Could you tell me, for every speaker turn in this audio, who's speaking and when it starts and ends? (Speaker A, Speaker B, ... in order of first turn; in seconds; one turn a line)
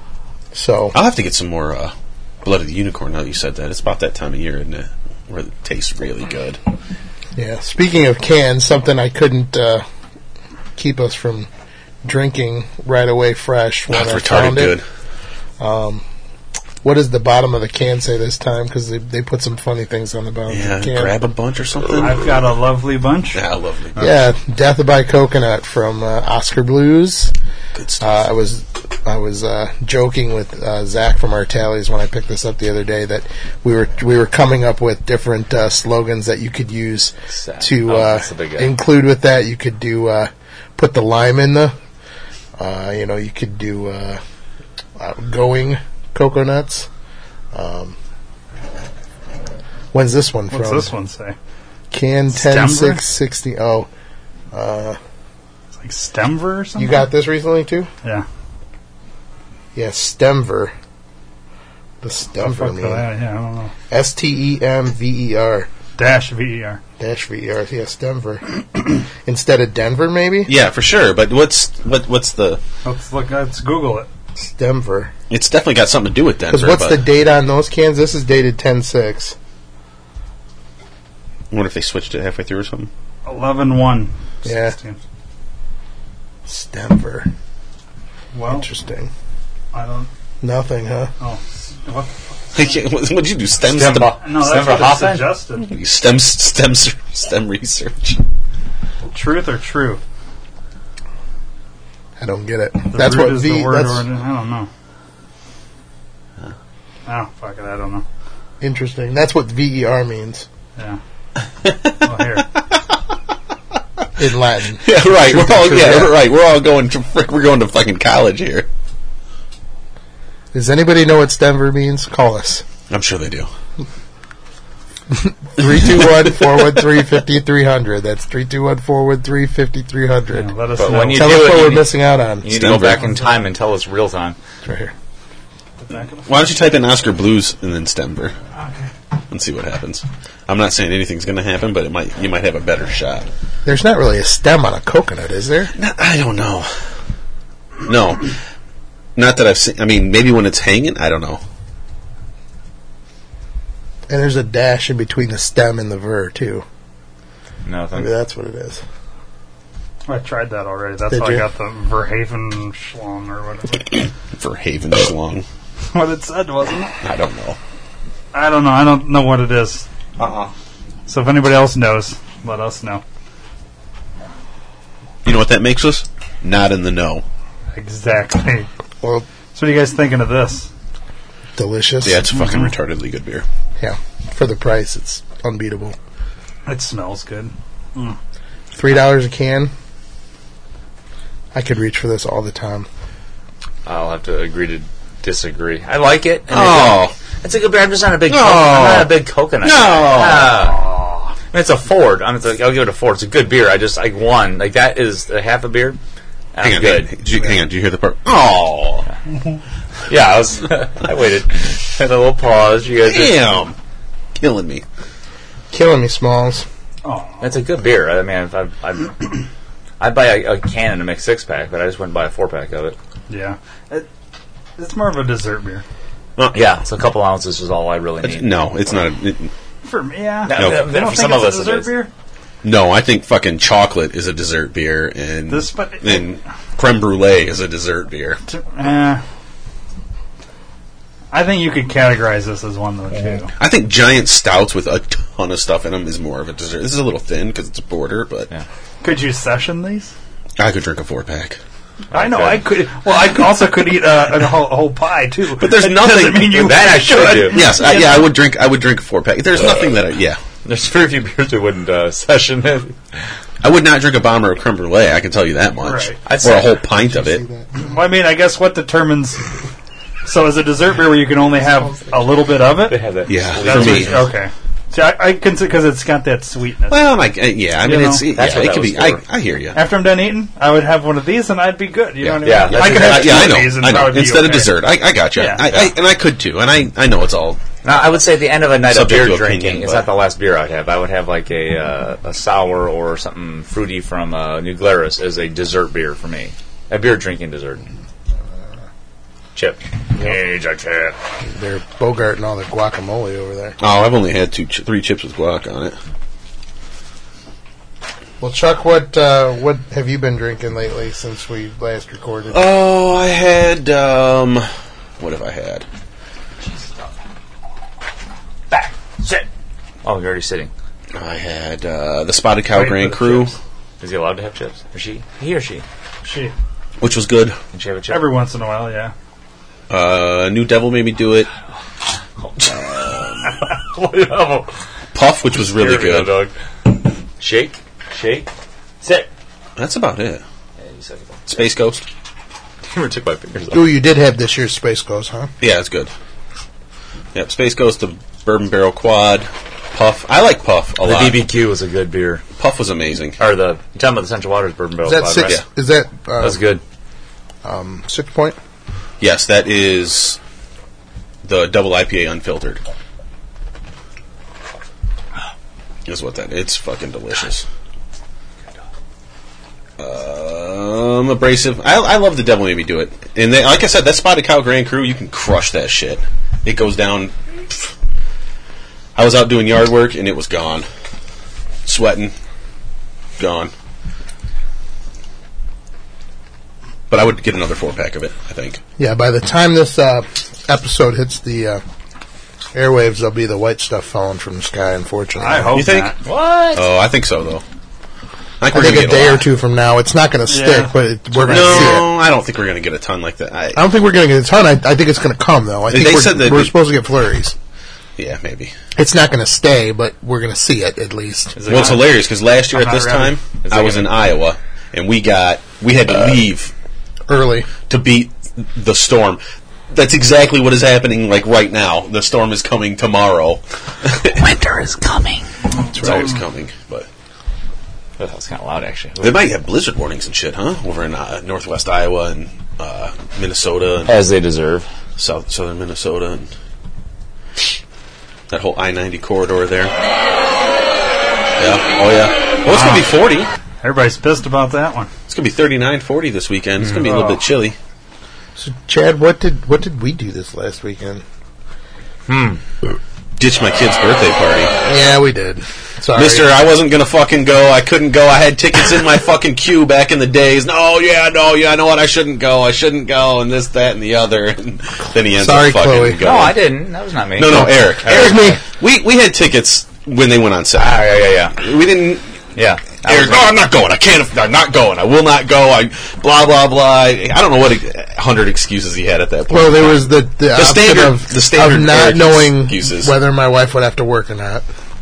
Speaker A: 0.5-1.0
Speaker B: 0.9-6.6
Speaker A: 7.4-9.8
Speaker A: 10.8-11.5
Speaker A: 12.0-14.8
Speaker B: 13.9-14.8
Speaker A: 15.6-16.0
Speaker A: 16.8-21.1
Speaker B: 20.5-22.4
Speaker C: 21.9-23.4
Speaker B: 23.3-24.1
Speaker A: 24.0-27.3
Speaker B: 27.8-28.1
Speaker A: 28.0-41.8
Speaker D: 37.3-38.7
Speaker A: 42.6-44.2
Speaker A: 45.0-46.9
Speaker A: 47.5-48.0
Speaker A: 49.9-50.9
Speaker C: 50.5-51.4
Speaker A: 51.9-53.9
Speaker C: 52.3-53.0
Speaker A: 54.5-55.0
Speaker C: 55.8-57.0
Speaker A: 56.8-57.9
Speaker A: 59.8-60.7
Speaker A: 62.0-63.1
Speaker C: 62.4-63.7
Speaker A: 63.9-65.7
Speaker C: 66.0-66.8
Speaker A: 67.0-70.5
Speaker B: 70.5-72.6
Speaker C: 72.8-74.1
Speaker A: 74.4-75.1
Speaker B: 75.3-77.0
Speaker A: 76.5-79.4
Speaker B: 81.5-82.9
Speaker C: 83.3-85.0
Speaker A: 84.5-84.8
Speaker A: 86.5-87.3
Speaker C: 88.3-88.7
Speaker A: 88.5-89.1
Speaker C: 89.7-90.1
Speaker A: 90.4-91.1
Speaker C: 91.2-92.7
Speaker B: 92.5-94.2
Speaker D: 93.6-95.3
Speaker C: 94.2-95.7
Speaker B: 95.6-98.2
Speaker C: 99.1-100.0
Speaker A: 102.2-104.0
Speaker C: 102.9-104.7
Speaker C: 107.1-108.0
Speaker A: 108.6-110.5
Speaker B: 111.6-112.4
Speaker C: 112.0-112.5
Speaker A: 114.2-116.2
Speaker B: 114.8-118.7
Speaker A: 120.5-122.7
Speaker B: 122.9-123.5
Speaker A: 125.1-130.5
Speaker B: 125.7-126.8
Speaker C: 130.3-131.8
Speaker D: 130.8-134.4
Speaker A: 131.1-132.5
Speaker B: 132.5-133.1
Speaker C: 133.0-133.3
Speaker A: 134.7-134.9
Speaker C: 135.8-136.3
Speaker B: 136.2-138.3
Speaker B: 139.3-143.3
Speaker A: 143.7-145.7
Speaker B: 145.8-146.7
Speaker B: 147.8-148.3
Speaker B: 149.2-151.4
Speaker A: 154.1-156.7
Speaker D: 157.7-158.1
Speaker A: 157.9-158.8
Speaker C: 160.1-164.1
Speaker A: 161.1-161.4
Speaker B: 164.3-165.4
Speaker C: 165.9-167.0
Speaker B: 167.0-167.6
Speaker C: 168.3-169.9
Speaker B: 170.2-170.5
Speaker C: 171.1-173.0
Speaker B: 175.2-177.2
Speaker C: 177.8-178.7
Speaker C: 179.5-180.7
Speaker A: 181.6-182.2
Speaker B: 182.0-183.5
Speaker C: 182.3-182.7
Speaker A: 183.8-186.0
Speaker C: 186.7-188.2
Speaker A: 188.8-189.7
Speaker A: 191.5-192.9
Speaker D: 193.8-200.8
Speaker B: 196.5-197.1
Speaker B: 198.3-200.7
Speaker C: 200.6-201.3
Speaker D: 201.5-206.0
Speaker D: 206.5-207.2
Speaker B: 206.6-209.1
Speaker D: 210.1-213.4
Speaker B: 213.0-213.8
Speaker B: 214.4-214.8
Speaker A: 215.7-216.7
Speaker C: 217.0-217.5
Speaker D: 217.4-219.4
Speaker D: 220.0-223.0
Speaker C: 223.3-224.1
Speaker C: 224.8-225.8
Speaker D: 226.5-228.6
Speaker B: 228.2-229.5
Speaker C: 229.8-232.1
Speaker D: 230.5-231.9
Speaker B: 230.5-230.9
Speaker B: 232.6-238.4
Speaker C: 235.5-236.3
Speaker C: 238.5-239.2
Speaker C: 241.3-243.5
Speaker B: 243.6-248.5
Speaker C: 249.0-250.1
Speaker B: 250.6-251.6
Speaker D: 252.1-252.7
Speaker C: 252.1-258.3
Speaker B: 255.6-260.4
Speaker D: 256.5-257.7
Speaker D: 260.6-263.2
Speaker B: 263.6-267.4
Speaker C: 265.8-266.2
Speaker D: 266.3-266.8
Speaker A: 267.0-267.9
Speaker C: 267.8-269.5
Speaker C: 270.2-273.0
Speaker A: 271.9-272.1
Speaker D: 272.9-274.3
Speaker B: 273.3-274.3
Speaker C: 273.6-277.1
Speaker B: 276.9-279.8
Speaker C: 277.8-278.3
Speaker D: 278.3-279.2
Speaker C: 279.7-284.8
Speaker B: 282.2-287.6
Speaker D: 282.4-283.7
Speaker C: 285.3-285.8
Speaker D: 287.8-297.9
Speaker B: 288.9-290.1
Speaker D: 299.6-301.2
Speaker A: 301.5-303.8
Speaker B: 303.8-306.0
Speaker A: 308.4-312.6
Speaker B: 312.5-314.7
Speaker B: 315.2-315.9
Speaker D: 318.7-319.5
Speaker D: 320.0-320.7
Speaker B: 321.1-323.6
Speaker C: 322.7-323.6
Speaker D: 324.0-325.9
Speaker C: 326.2-326.5
Speaker B: 327.0-327.6
Speaker D: 327.7-328.3
Speaker C: 328.1-329.1
Speaker B: 329.9-331.5
Speaker D: 332.4-332.8
Speaker B: 332.6-333.6
Speaker D: 333.6-334.7
Speaker B: 335.1-336.3
Speaker D: 335.7-338.5
Speaker D: 339.0-339.3
Speaker B: 339.8-340.4
Speaker D: 340.8-341.5
Speaker B: 341.5-342.0
Speaker D: 342.9-343.9
Speaker A: 343.7-345.5
Speaker B: 345.6-346.1
Speaker B: 347.3-351.4
Speaker D: 351.0-352.4
Speaker B: 352.6-353.4
Speaker D: 353.4-355.6
Speaker A: 355.0-356.6
Speaker D: 356.4-356.8
Speaker A: 357.6-358.6
Speaker B: 359.2-360.4
Speaker B: 361.4-362.8
Speaker B: 366.1-367.6
Speaker B: 370.0-377.9
Speaker B: 379.1-380.9
Speaker B: 381.9-382.3
Speaker B: 383.4-383.7
Speaker B: 387.1-388.8
Speaker A: 389.0-391.8
Speaker A: 392.7-395.8
Speaker C: 395.4-396.2
Speaker B: 395.7-396.1
Speaker D: 396.2-396.9
Speaker B: 396.7-397.6
Speaker B: 398.6-399.5
Speaker A: 398.7-402.1
Speaker C: 400.5-402.0
Speaker B: 401.5-403.8
Speaker A: 403.8-407.6
Speaker B: 405.9-406.8
Speaker B: 408.2-408.7
Speaker A: 409.0-411.6
Speaker D: 411.6-412.1
Speaker B: 411.7-416.7
Speaker C: 411.7-412.0
Speaker C: 412.7-413.4
Speaker D: 413.6-414.1
Speaker A: 417.3-417.7
Speaker B: 417.9-424.4
Speaker D: 424.2-425.5
Speaker B: 425.9-427.1
Speaker D: 428.2-429.5
Speaker B: 429.2-434.2
Speaker D: 434.1-434.9
Speaker B: 435.2-436.5
Speaker B: 438.5-439.9
Speaker B: 441.6-443.5
Speaker C: 442.7-443.1
Speaker C: 443.8-445.1
Speaker B: 445.3-447.8
Speaker D: 446.8-447.2
Speaker C: 447.0-447.4
Speaker A: 448.6-451.2
Speaker D: 452.3-452.6
Speaker B: 453.4-454.7
Speaker A: 454.9-456.5
Speaker B: 456.1-466.6
Speaker A: 465.3-466.2
Speaker D: 466.2-468.6
Speaker B: 467.4-472.4
Speaker A: 467.5-468.6
Speaker D: 470.8-471.6
Speaker D: 472.6-473.5
Speaker B: 473.0-483.1
Speaker A: 479.5-484.6